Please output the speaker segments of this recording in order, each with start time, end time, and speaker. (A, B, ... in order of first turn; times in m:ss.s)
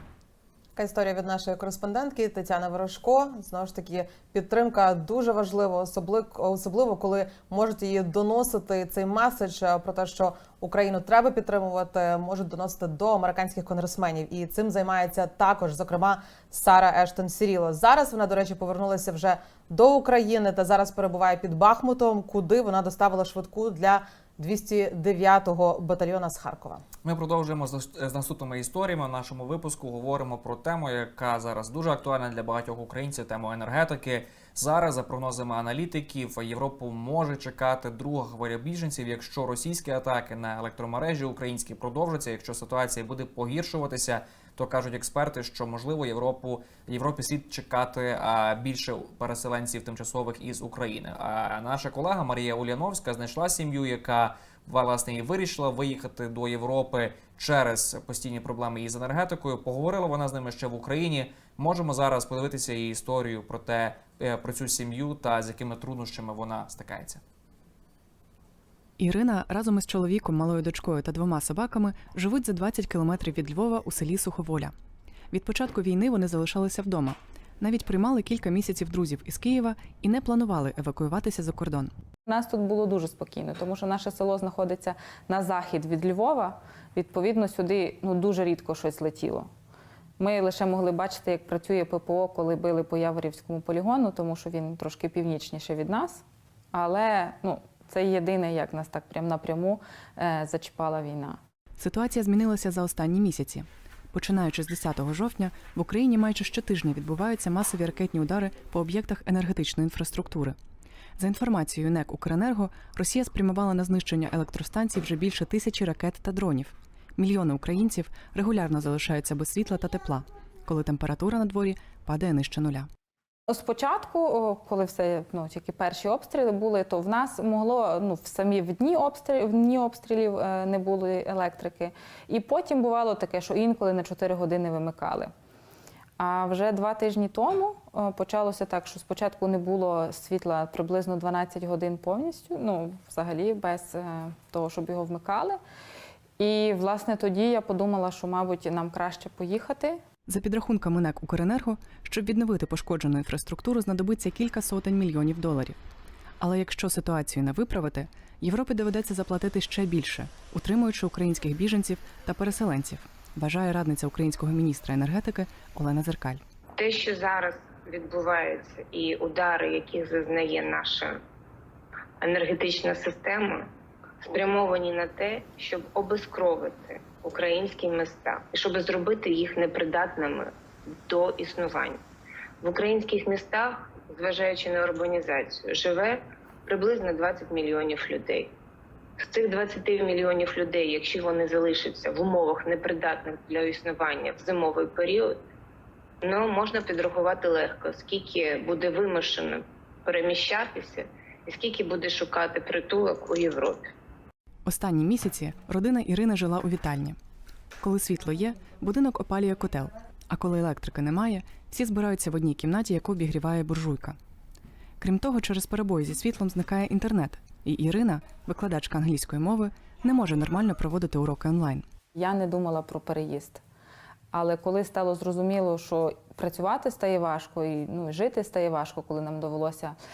0:00.8-0:26.8 A
0:27.0-1:07.2 B
1:09.0-1:14.7 C
1:15.3-1:21.9 C
1:22.2-1:29.5 D
1:30.2-1:41.4 D
1:41.8-1:50.6 C
1:51.2-2:02.9 C
2:03.5-2:15.3 D
2:16.2-2:25.6 D
2:26.4-2:30.0 D
2:30.3-2:35.8 C
2:36.4-2:46.4 C
2:46.8-2:51.2 E
2:52.2-2:53.7 E
2:54.2-3:02.0 E
3:02.6-3:08.5 E
3:09.2-3:15.4 E
3:16.2-3:23.9 E
3:24.6-3:27.2 C
3:27.8-3:34.2 C
3:35.0-3:41.8 C
3:42.1-3:43.6 D
3:44.3-3:50.0 D